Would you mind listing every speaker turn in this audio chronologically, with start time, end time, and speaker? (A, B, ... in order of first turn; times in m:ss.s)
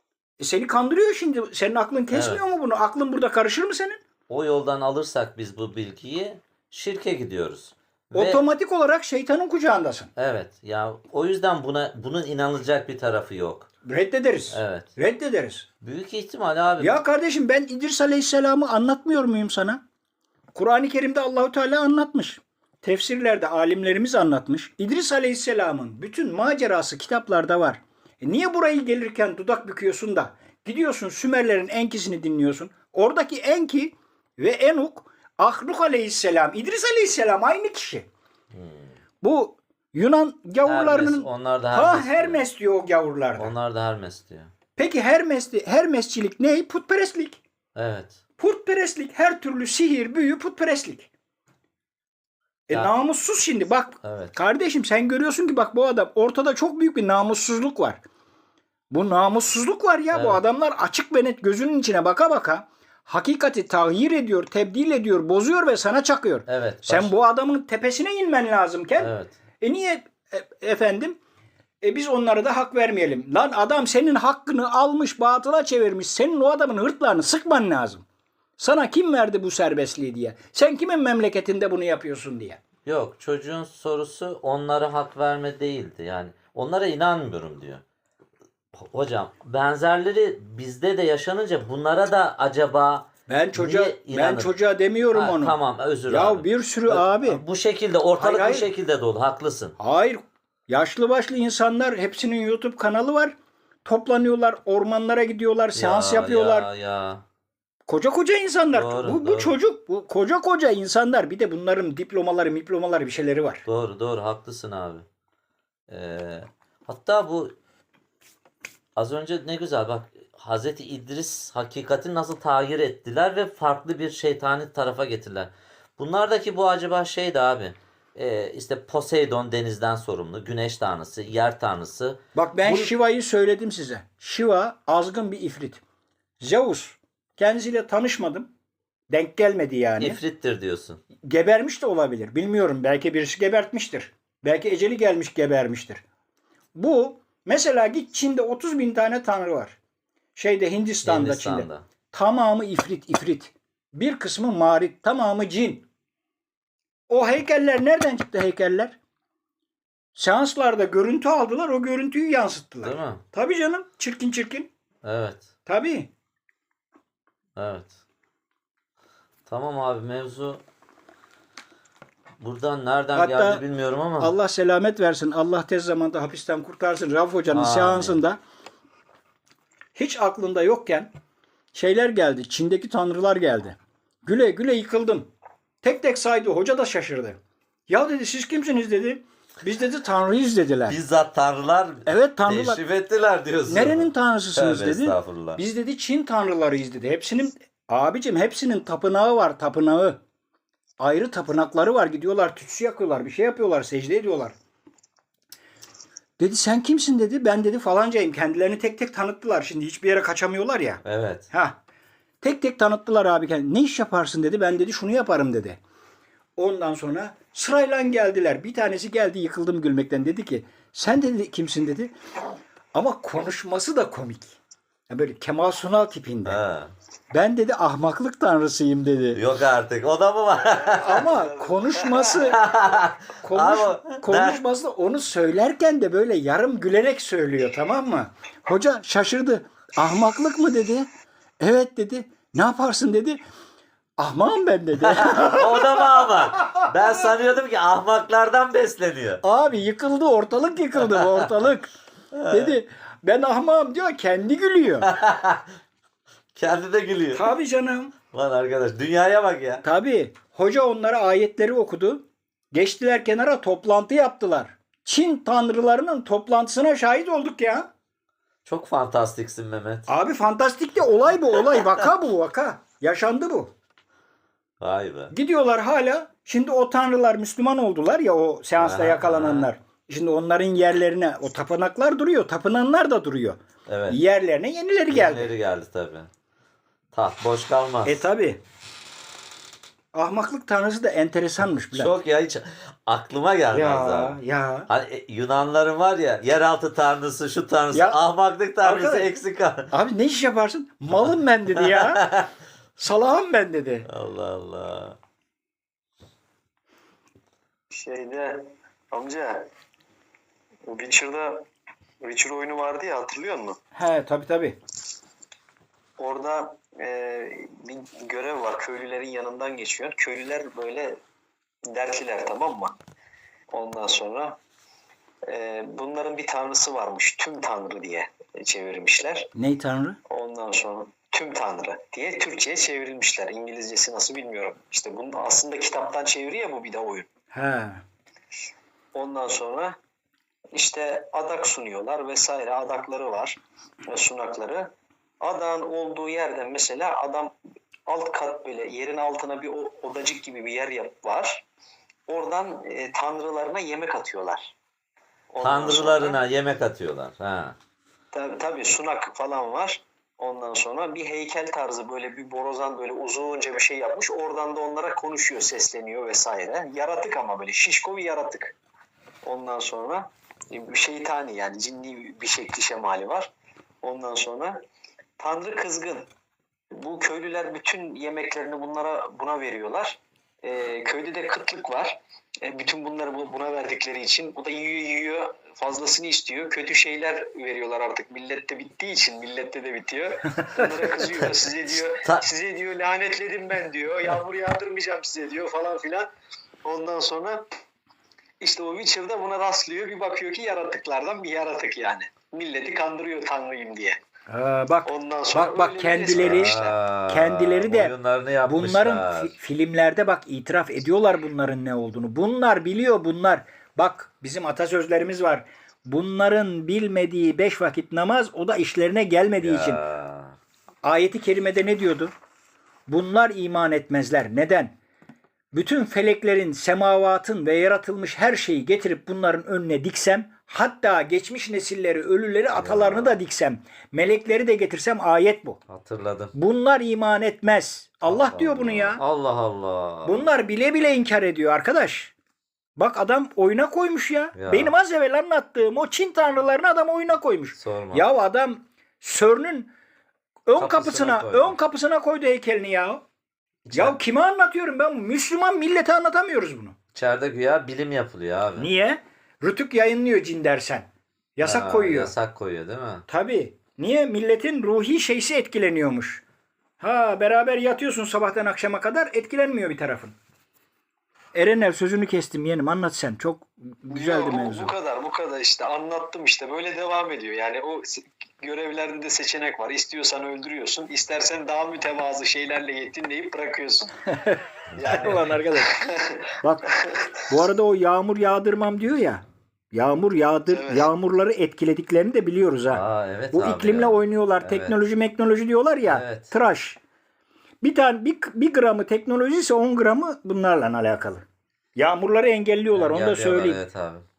0:00.4-0:04.0 A
0:02.1-0:02.4 B
0:04.3-0:08.4 B
0:08.1-0:10.1 A
0:10.2-0:13.7 B
0:13.8-0:15.7 A
0:14.5-0:14.9 B
0:15.8-0:17.0 B
0:16.8-0:19.8 A
0:20.6-0:38.1 A
0:38.5-0:39.0 B
0:39.2-0:43.5 A
0:40.6-0:42.4 B
0:43.4-0:44.5 B
0:44.8-0:47.4 A
0:47.8-0:48.2 B
0:48.4-0:51.1 A
0:52.7-0:58.0 A
0:54.0-0:54.4 B
0:58.9-1:11.2 A
1:00.1-1:00.4 B
1:06.5-1:07.1 B
1:09.0-1:09.4 B
1:11.8-1:18.1 A
1:18.6-1:22.6 A
1:22.8-1:27.8 B
1:28.8-1:34.5 B
1:33.3-1:35.6 A
1:35.1-1:39.8 B
1:36.1-1:37.4 A
1:38.2-1:38.7 A
1:39.8-1:46.7 A
1:45.7-1:47.2 B
1:47.9-1:53.6 A
1:48.7-1:49.5 B
1:53.7-1:55.0 B
1:55.9-1:57.6 B
1:59.0-2:12.9 B
2:12.4-2:15.8 A
2:16.4-2:18.5 A
2:19.1-2:20.2 A
2:20.0-2:21.0 B
2:21.2-2:26.0 A
2:26.7-2:29.8 A
2:30.4-2:35.9 A
2:31.0-2:31.8 B
2:37.1-2:39.0 A
2:40.2-2:44.7 A
2:42.8-2:43.2 B
2:45.0-2:45.5 B
2:45.7-2:46.1 A
2:47.6-2:48.0 B
2:49.5-2:50.6 B
2:52.4-2:54.3 B
2:53.2-2:53.6 A
2:54.2-2:58.4 A
2:57.5-2:58.2 B
3:00.0-3:01.1 A
3:01.7-3:05.3 A
3:05.8-3:11.0 A
3:10.9-3:15.6 B
3:12.1-3:12.8 A
3:13.7-3:20.2 A
3:21.0-3:24.6 A
3:26.4-3:31.8 A
3:31.0-3:31.5 B
3:32.4-3:35.8 A
3:36.6-3:42.1 A
3:42.9-3:46.6 A
3:46.5-3:46.9 B
3:47.3-3:49.4 A
3:49.3-3:51.3 B
3:50.7-3:52.4 C
3:50.9-3:52.7 A
3:52.3-3:54.6 B
3:53.4-4:01.1 A
4:01.6-4:03.4 A
4:04.2-4:07.3 A
4:05.0-4:09.4 B
4:09.4-4:11.9 A
4:11.0-4:11.5 B
4:12.3-4:12.7 B
4:12.5-4:15.1 A
4:15.0-4:15.7 B
4:16.6-4:17.5 B
4:17.3-4:18.1 A
4:18.3-4:19.8 B
4:19.8-4:27.9 A
4:28.6-4:30.1 B
4:30.1-4:33.7 A
4:34.8-4:35.3 B
4:35.3-4:45.5 A
4:38.8-4:39.7 B
4:43.9-4:44.2 B
4:45.1-4:46.3 B
4:47.1-4:48.2 B
4:48.0-4:48.6 A
4:50.1-4:52.1 A
4:51.9-4:59.9 B
4:53.7-4:54.9 A
4:57.9-4:58.2 A
4:58.8-4:59.3 A
4:59.9-5:02.2 A
5:01.8-5:02.5 B
5:03.0-5:04.1 A
5:04.1-5:05.2 B
5:07.9-5:09.7 C
5:10.9-5:11.7 C
5:12.2-5:13.8 C
5:13.9-5:14.8 A
5:16.2-5:21.2 C
5:21.9-5:23.0 C
5:23.7-5:24.6 C
5:25.4-5:29.5 C
5:29.6-5:30.2 A
5:30.3-5:37.3 C
5:37.5-5:38.0 A
5:39.1-5:40.0 C
5:40.7-5:47.5 C
5:48.1-5:51.6 C
5:52.3-5:54.7 C
5:55.5-5:56.4 C
5:55.6-5:57.8 B
5:58.3-6:08.8 C
6:09.4-6:13.5 C
6:14.0-6:14.8 C
6:15.4-6:16.3 C
6:16.9-6:36.3 C
6:30.6-6:31.1 A
6:32.0-6:32.4 B
6:36.8-6:37.7 C
6:38.6-6:44.2 C
6:44.5-6:46.8 A
6:45.1-6:47.0 C
6:46.4-6:49.5 B
6:47.3-6:48.1 A
6:48.6-7:00.0 A
6:59.6-7:00.6 B
7:01.0-7:02.3 A
7:03.1-7:05.0 A
7:05.7-7:15.8 A
7:12.7-7:13.4 B
7:15.9-7:16.5 B
7:16.5-7:19.2 A
7:18.2-7:20.5 B
7:20.2-7:22.3 A
7:23.0-7:29.9 A
7:24.5-7:25.0 B
7:27.8-7:28.3 B
7:30.7-7:33.2 A
7:30.8-7:31.8 B
7:33.8-7:34.2 B
7:33.9-7:37.0 A
7:37.1-7:38.9 B
7:38.8-7:42.3 A
7:41.6-7:43.2 B
7:43.3-7:46.4 A
7:47.0-7:50.4 A
7:51.5-7:54.9 A
7:54.1-8:04.2 C
8:04.3-8:06.1 A
8:04.9-8:05.4 B
8:05.0-8:07.4 C
8:06.6-8:06.9 A
8:07.5-8:17.0 A
8:10.7-8:11.1 C
8:12.9-8:15.0 B
8:16.0-8:16.5 B
8:17.8-8:21.4 A
8:22.0-8:23.8 A
8:22.9-8:24.2 B